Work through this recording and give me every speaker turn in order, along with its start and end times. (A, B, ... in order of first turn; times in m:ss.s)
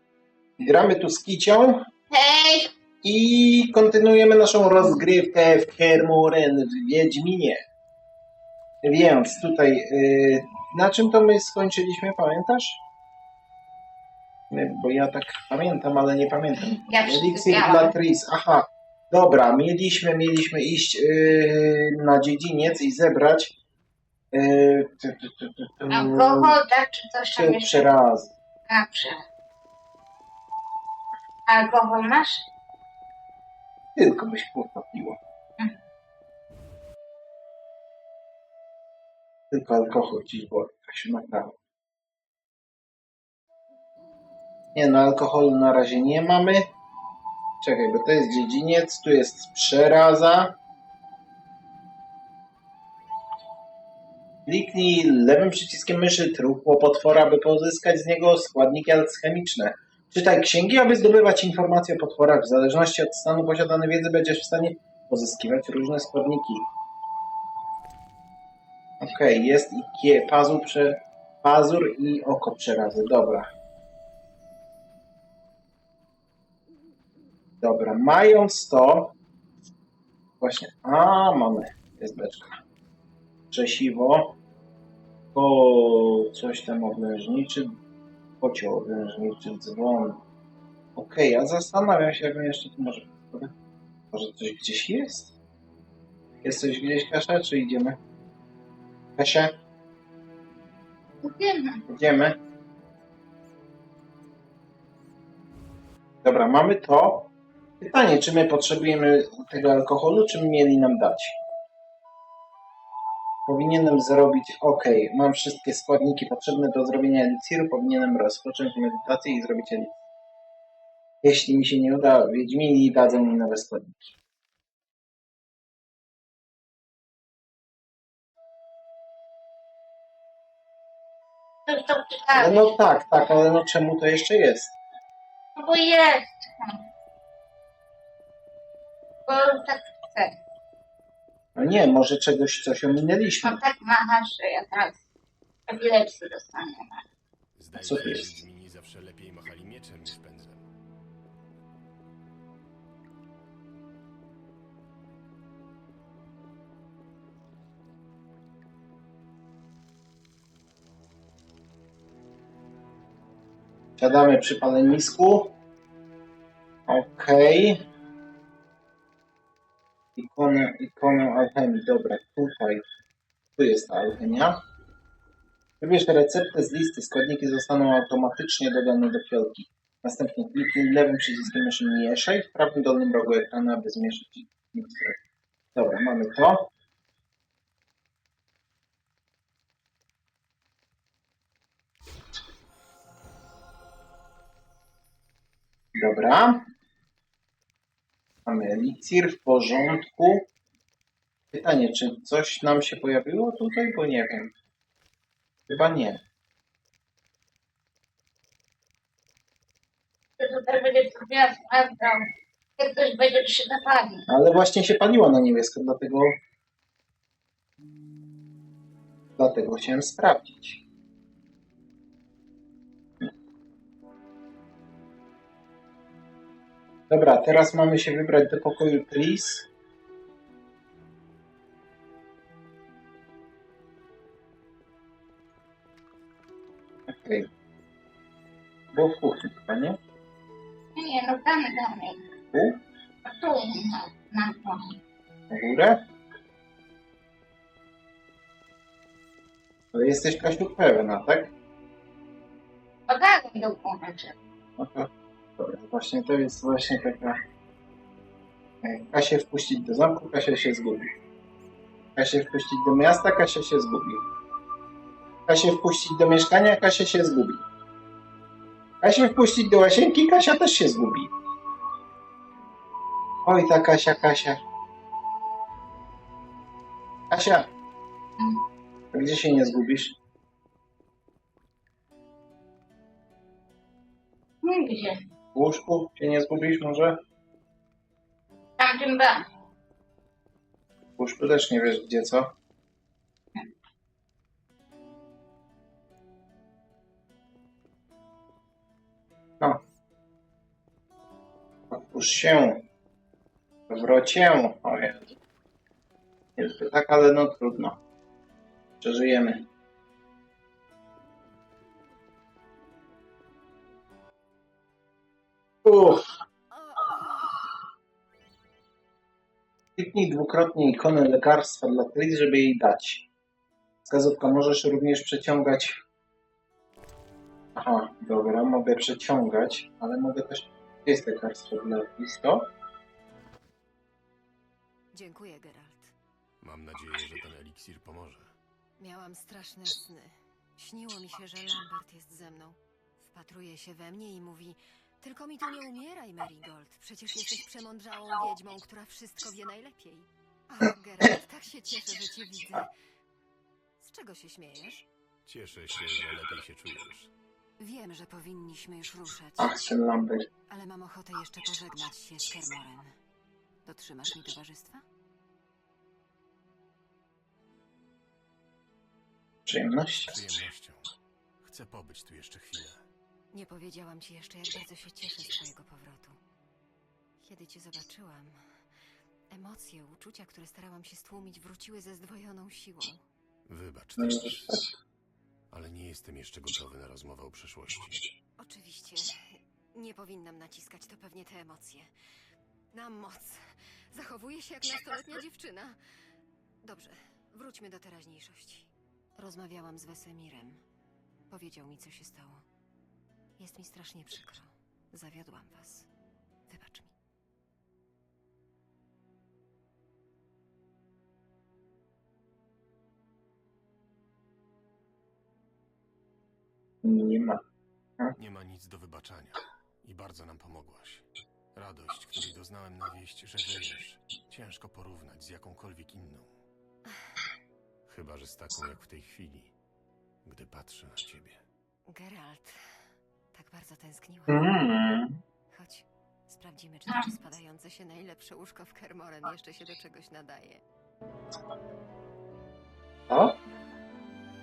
0:00.6-0:01.9 A
0:02.1-0:02.7 B
0:03.0-0:07.6 A
0:08.8-0:12.8 A
0:14.5-0:23.6 A
0:16.7-0:18.0 B
0:24.3-0:26.6 A
0:25.9-0:27.9 B
0:27.4-0:28.4 A
0:28.7-0:29.2 B
0:31.5-0:32.4 B
0:34.0-0:35.2 A
0:39.5-0:41.6 A
0:44.8-0:46.7 A
0:47.6-0:50.6 A
0:54.5-1:06.7 A
1:09.0-1:13.5 A
1:17.6-1:19.2 A
1:20.4-1:22.6 A
1:23.5-1:24.4 A
1:25.4-1:27.8 A
1:28.4-1:30.2 A
1:31.0-1:33.5 A
1:34.1-1:35.4 A
1:36.4-1:38.0 A
1:39.2-1:39.5 A
1:41.2-1:41.8 B
1:41.9-1:42.4 A
1:46.2-1:47.3 A
1:47.8-1:51.4 A
1:53.5-2:00.0 A
2:01.2-2:04.2 A
2:11.7-2:12.8 B
2:12.4-2:14.8 A
2:15.6-2:16.8 B
2:19.3-2:20.4 B
2:21.6-2:23.6 A
2:23.4-2:25.0 B
2:25.7-2:27.0 B
2:27.6-2:30.7 C
2:27.8-2:28.3 A
2:44.0-2:45.6 A
2:46.9-2:47.8 A
2:50.2-2:52.9 A
2:53.6-2:54.6 A
2:55.8-3:05.2 A
3:05.8-3:06.7 A
3:15.9-3:16.6 A
3:18.5-3:20.5 A
3:21.5-3:24.5 A
3:25.7-3:26.2 A
3:30.4-3:34.3 B
3:34.3-3:36.3 A
3:39.4-3:40.8 A
3:47.1-3:49.7 A
3:57.1-3:57.5 A
3:58.9-4:00.0 A
4:01.0-4:02.3 B
4:02.5-4:02.8 A
4:03.2-4:05.0 B
4:05.5-4:06.0 A
4:09.9-4:11.5 A
4:13.1-4:14.4 B
4:14.8-4:17.4 A
4:18.8-4:21.1 A
4:22.2-4:24.2 A
4:25.5-4:27.6 A
4:29.0-4:31.3 A
4:33.4-4:34.6 A
4:37.3-4:37.7 A
4:39.1-4:40.2 A
4:44.6-4:45.2 B
4:45.6-4:47.2 A
4:48.8-4:49.4 B
4:51.2-4:52.6 A
5:01.9-5:02.9 A
5:03.9-5:05.4 A
5:06.6-5:08.0 A
5:09.0-5:09.7 A
5:15.8-5:16.2 A
5:16.7-5:17.6 D
5:20.0-5:23.3 A
5:24.1-5:26.0 A
5:27.8-5:32.7 A
5:35.1-5:36.2 D
5:36.6-5:38.6 C
5:39.0-5:52.9 D
5:54.0-5:55.1 D
5:55.4-5:57.3 C
5:57.8-6:00.0 D
5:59.6-6:00.5 A
6:00.7-6:03.1 D
6:03.8-6:05.0 D
6:09.7-6:10.4 A
6:10.3-6:13.0 C
6:13.5-6:16.4 D
6:17.4-6:18.6 D
6:19.5-6:23.2 D
6:23.7-6:24.8 C
6:24.2-6:24.9 A
6:25.7-6:28.2 C
6:28.6-6:32.1 D
6:32.9-6:33.6 D
6:34.1-6:36.0 D
6:36.8-6:40.8 D
6:41.5-6:42.6 D
6:43.6-6:46.1 D
6:46.7-6:47.1 D
6:57.0-6:57.6 A
6:58.4-7:06.6 C
7:07.1-7:07.4 D
7:08.1-7:09.7 C
7:10.4-7:11.6 C
7:12.1-7:12.8 D
7:13.5-7:14.8 D
7:14.5-7:15.4 A
7:15.7-7:20.8 D
7:23.3-7:23.6 A